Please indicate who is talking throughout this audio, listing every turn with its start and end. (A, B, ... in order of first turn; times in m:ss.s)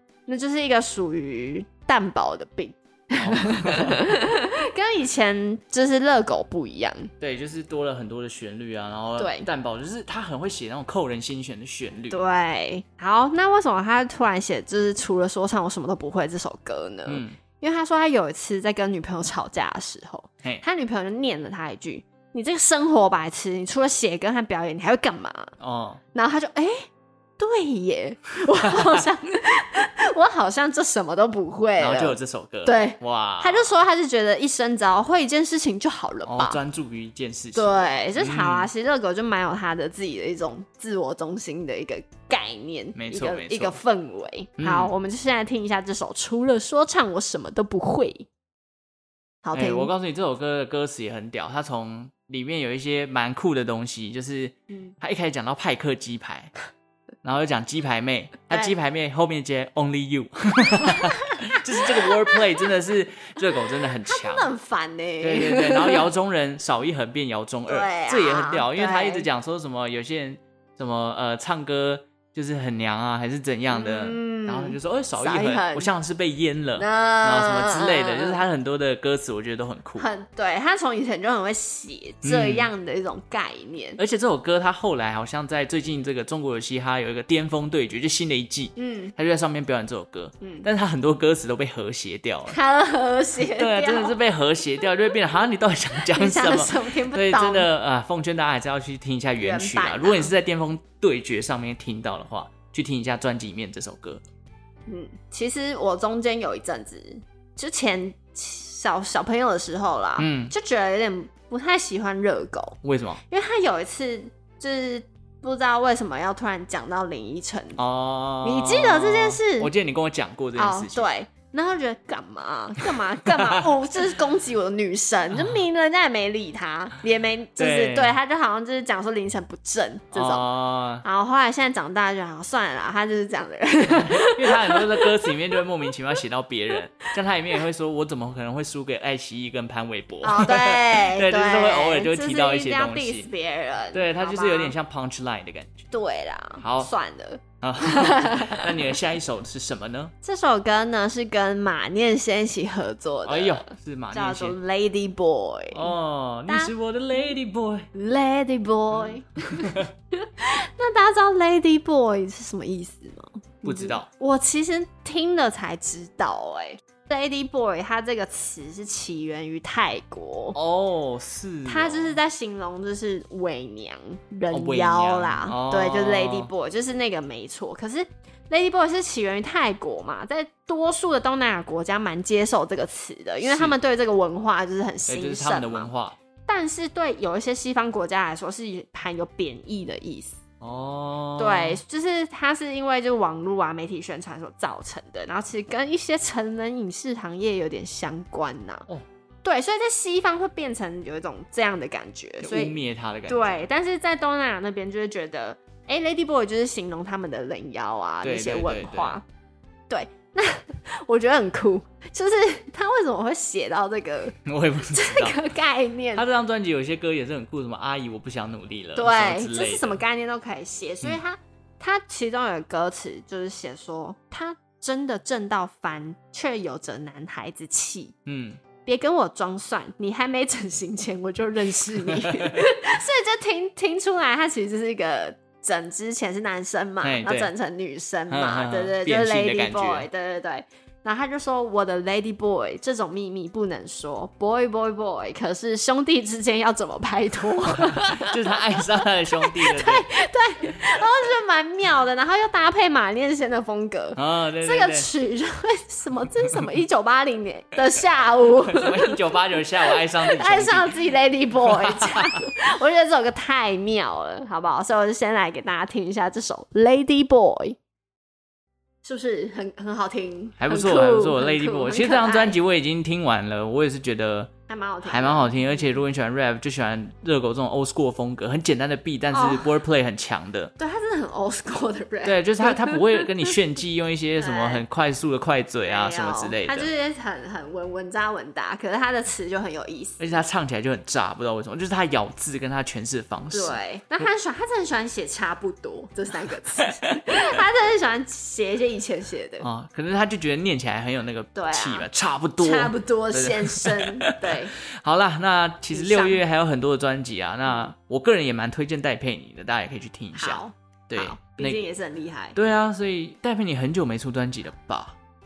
0:00.3-0:07.1 A
0:03.2-0:04.0 B
0:07.2-0:12.2 B
0:09.2-0:09.5 A
0:12.1-0:25.5 A
0:17.0-0:17.4 B
0:25.6-0:26.0 B
0:26.1-0:26.8 A
0:27.4-0:36.6 A
0:31.8-0:33.7 B
0:36.2-0:38.7 B
0:37.5-0:48.3 A
0:42.9-0:43.8 B
0:44.6-0:44.9 B
0:49.4-0:49.9 A
0:49.5-0:56.5 B
0:57.2-1:04.5 B
1:01.8-1:02.4 A
1:04.1-1:06.0 A
1:05.2-1:20.1 B
1:07.7-1:09.3 A
1:13.7-1:15.9 A
1:16.8-1:18.4 A
1:20.0-1:24.0 A
1:22.2-1:22.7 B
1:24.0-1:32.6 B
1:28.8-1:29.1 A
1:30.4-1:30.7 A
1:32.5-1:34.2 A
1:33.5-1:44.2 B
1:36.0-1:37.7 A
1:39.4-1:40.3 A
1:44.9-1:57.8 A
1:50.2-1:50.5 B
1:52.8-1:53.2 B
1:57.8-2:01.1 B
1:58.4-1:59.7 A
2:00.6-2:10.5 A
2:03.3-2:03.6 B
2:05.3-2:05.6 B
2:07.6-2:08.2 B
2:10.1-2:11.0 B
2:11.0-2:15.3 A
2:13.9-2:23.3 B
2:20.2-2:24.7 A
2:23.9-2:25.8 B
2:25.9-2:28.6 A
2:26.6-2:26.9 B
2:27.6-2:30.1 B
2:30.2-2:35.9 A
2:33.2-2:34.6 B
2:35.7-2:37.9 B
2:36.5-2:36.7 A
2:37.9-2:50.6 A
2:38.9-2:39.9 B
2:43.6-2:44.1 B
2:50.5-2:52.2 B
2:51.6-3:05.9 A
2:54.5-2:56.5 B
3:03.4-3:03.7 B
3:05.1-3:06.2 B
3:06.5-3:10.4 A
3:10.6-3:11.8 B
3:11.4-3:18.9 A
3:19.4-3:29.2 A
3:22.4-3:23.6 B
3:28.2-3:29.2 B
3:29.9-3:34.4 A
3:34.4-3:35.4 B
3:34.9-3:36.2 A
3:36.1-3:40.0 B
3:39.0-3:48.1 A
3:48.2-3:48.6 B
3:48.8-4:19.2 A
3:52.2-3:52.5 B
3:57.0-3:57.5 B
3:58.3-4:00.1 B
4:07.8-4:10.0 B
4:14.2-4:15.1 B
4:18.7-4:21.0 B
4:19.9-4:27.8 A
4:21.6-4:22.4 B
4:29.0-4:32.6 A
4:30.6-4:34.5 B
4:34.7-4:35.9 A
4:35.0-4:40.7 B
4:39.3-4:39.7 A
4:40.8-4:43.2 A
4:42.2-4:46.9 B
4:44.4-4:44.8 A
4:45.8-4:50.4 A
4:50.2-4:53.8 B
4:53.5-4:59.7 A
4:56.8-4:57.2 B
4:59.6-5:11.8 B
5:01.5-5:02.1 A
5:02.6-5:04.7 A
5:05.9-5:06.4 A
5:10.3-5:12.6 A
5:12.5-5:15.2 B